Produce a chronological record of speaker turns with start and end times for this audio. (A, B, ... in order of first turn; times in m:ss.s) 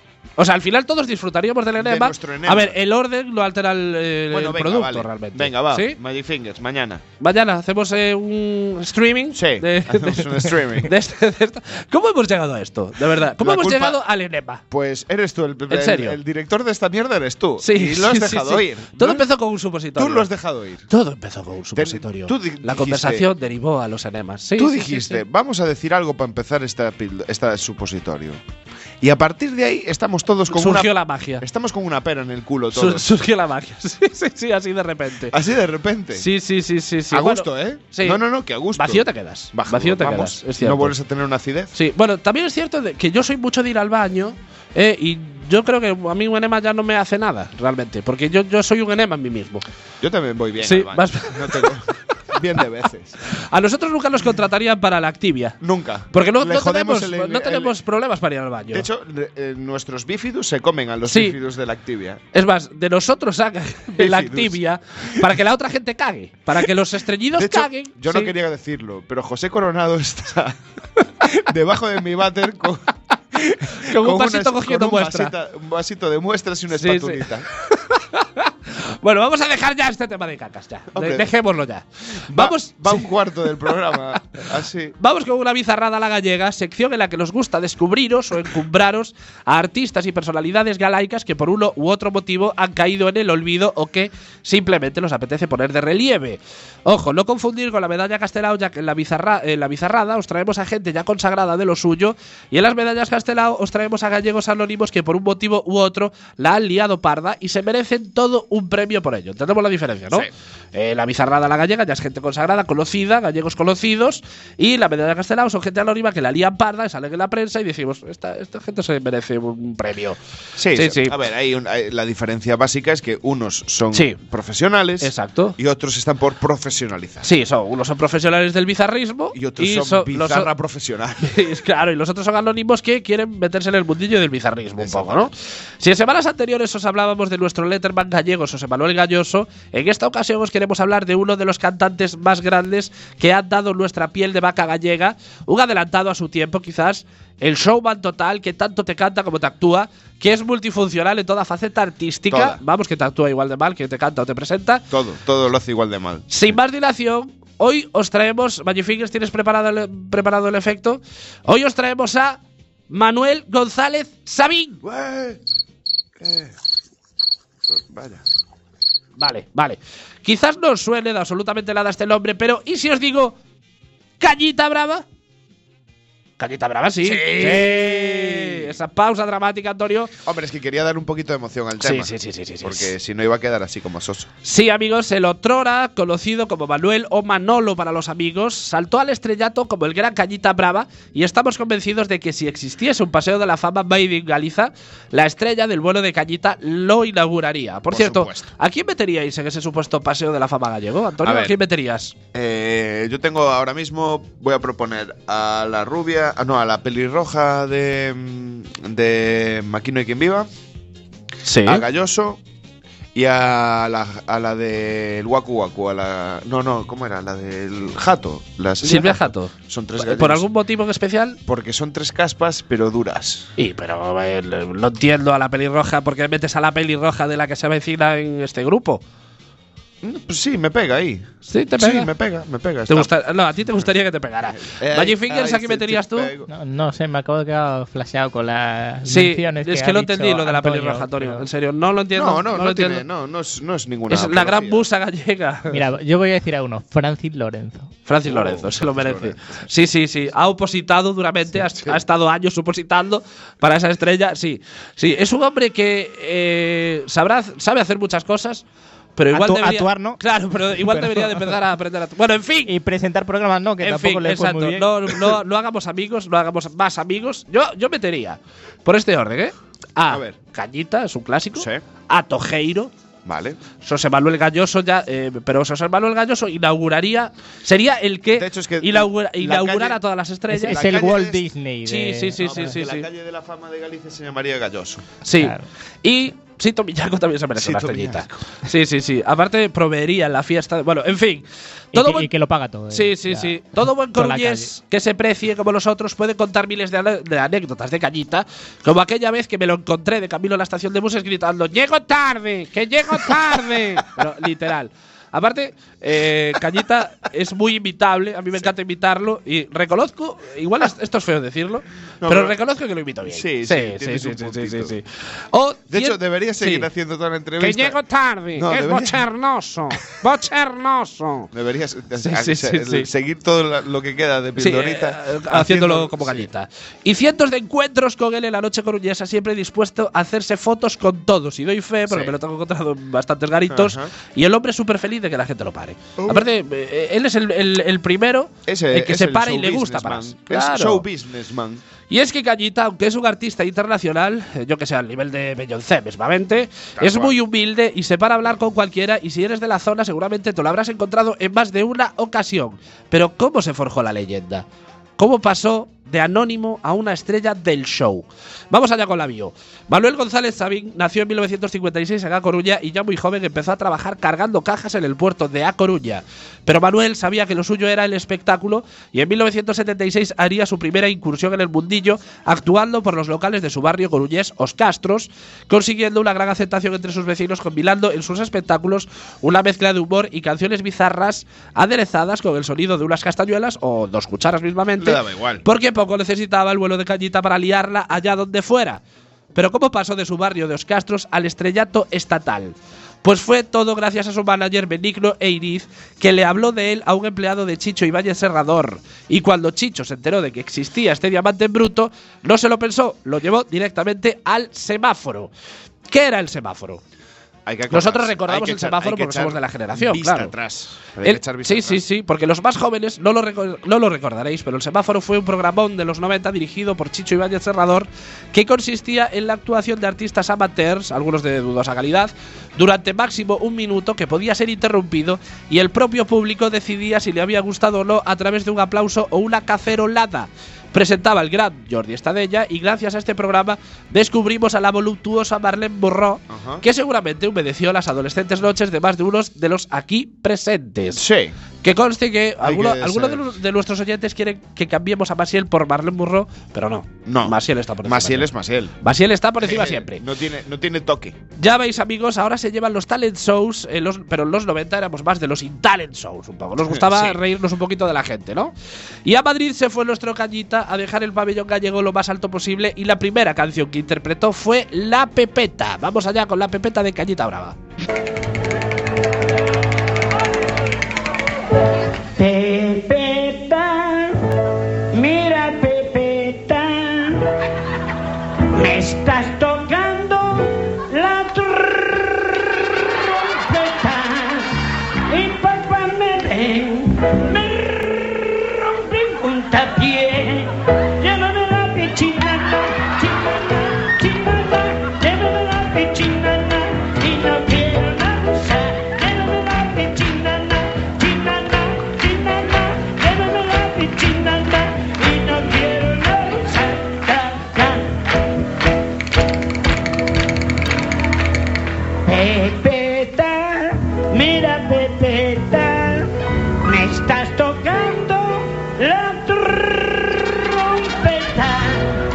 0:00.4-0:06.0 A
0:01.8-0:02.8 B
0:04.3-0:07.0 B
0:07.2-0:14.6 A
0:09.3-0:10.9 B
0:13.4-0:14.0 B
0:14.7-0:19.3 B
0:15.7-0:16.2 A
0:17.6-0:20.3 A
0:20.0-0:20.9 B
0:20.9-0:25.2 A
0:21.8-0:23.3 B
0:24.6-0:28.4 B
0:29.0-0:33.1 B
0:30.5-0:31.4 A
0:32.7-0:35.3 A
0:35.3-0:36.3 B
0:36.2-0:38.2 A
0:37.1-0:41.7 B
0:38.8-0:41.0 A
0:41.7-0:49.6 A
0:50.0-0:53.2 B
0:50.6-0:51.8 A
0:53.3-0:55.6 A
0:55.6-0:57.7 B
0:56.1-0:58.9 A
0:58.7-1:02.2 B
1:01.1-1:01.4 A
1:02.3-1:08.3 A
1:04.0-1:04.6 B
1:07.3-1:10.6 B
1:11.2-1:17.5 B
1:13.8-1:15.3 A
1:16.7-1:23.8 A
1:20.9-1:21.3 B
1:22.3-1:25.0 B
1:25.0-2:00.2 A
2:00.6-2:07.3 B
2:00.7-2:01.2 A
2:03.9-2:04.2 A
2:05.0-2:05.6 A
2:07.2-2:10.5 A
2:09.3-2:11.4 B
2:11.2-2:34.9 A
2:14.8-2:15.3 B
2:32.3-2:32.6 B
2:34.9-2:36.6 B
2:36.3-2:44.8 A
2:44.8-2:45.4 B
2:46.2-2:46.5 B
2:47.7-2:48.2 B
2:49.2-2:53.4 A
2:54.2-2:55.0 A
2:56.4-3:00.1 A
2:57.0-2:58.8 B
3:00.2-3:04.3 B
3:01.8-3:02.9 A
3:04.4-3:22.2 A
3:17.9-3:18.5 B
3:21.2-3:21.6 B
3:22.3-3:30.5 B
3:31.4-3:31.8 A
3:31.6-3:32.4 B
3:33.2-3:40.5 B
3:38.8-3:41.4 A
3:41.5-3:43.5 B
3:43.6-3:49.0 A
3:50.0-3:51.3 B
3:51.4-3:52.1 A
3:51.8-3:53.1 B
3:52.9-3:56.3 A
3:54.4-3:56.5 B
3:56.5-4:01.5 C
3:59.1-4:03.0 A
4:02.2-4:04.9 B
4:04.1-4:05.8 A
4:05.7-4:07.9 C
4:08.1-4:18.6 A
4:08.2-4:09.4 B
4:11.6-4:12.0 B
4:19.2-4:22.7 A
4:19.3-4:20.2 C
4:20.9-4:21.6 C
4:22.6-4:24.9 C
4:23.8-4:32.9 A
4:30.1-4:30.4 B
4:31.6-4:31.8 B
4:33.2-4:33.6 B
4:33.8-4:40.9 A
4:38.3-4:40.0 B
4:40.6-4:42.8 C
4:40.7-4:41.4 B
4:41.8-4:43.1 A
4:42.4-4:45.0 B
4:45.2-4:52.3 A
4:45.4-4:45.6 C
4:47.6-4:48.3 B
4:51.9-4:53.6 C
4:52.9-5:16.9 A
4:54.1-4:54.7 C
5:12.2-5:12.6 B
5:13.2-5:15.0 B
5:15.9-5:18.0 B
5:17.6-5:21.5 A
5:18.6-5:19.2 B
5:21.5-5:26.5 B
5:22.2-5:23.1 A
5:24.6-5:41.0 A
5:32.1-5:32.4 B
5:33.7-5:34.1 B
5:36.2-5:36.5 B
5:38.7-5:41.8 B
5:42.1-5:54.7 A
5:47.0-5:47.4 B
5:55.2-6:29.0 A
6:25.0-6:25.6 B
6:29.5-6:45.5 A
6:46.1-6:47.0 A
6:47.7-6:52.0 B
6:47.9-6:50.5 A
6:51.2-7:21.2 A
7:16.5-7:16.8 B
7:21.2-7:21.6 B
7:21.8-7:28.5 A
7:22.6-7:23.6 B
7:27.3-7:29.0 B
7:29.0-7:30.2 A
7:29.6-7:31.4 B
7:31.6-7:38.7 A
7:36.8-7:37.4 B
7:39.2-7:47.8 A
7:52.4-7:54.4 D
7:55.1-7:57.4 D
7:58.7-8:02.6 D
8:03.2-8:04.7 D
8:05.3-8:28.1 D
8:32.2-8:36.3 D
8:36.8-8:42.0 D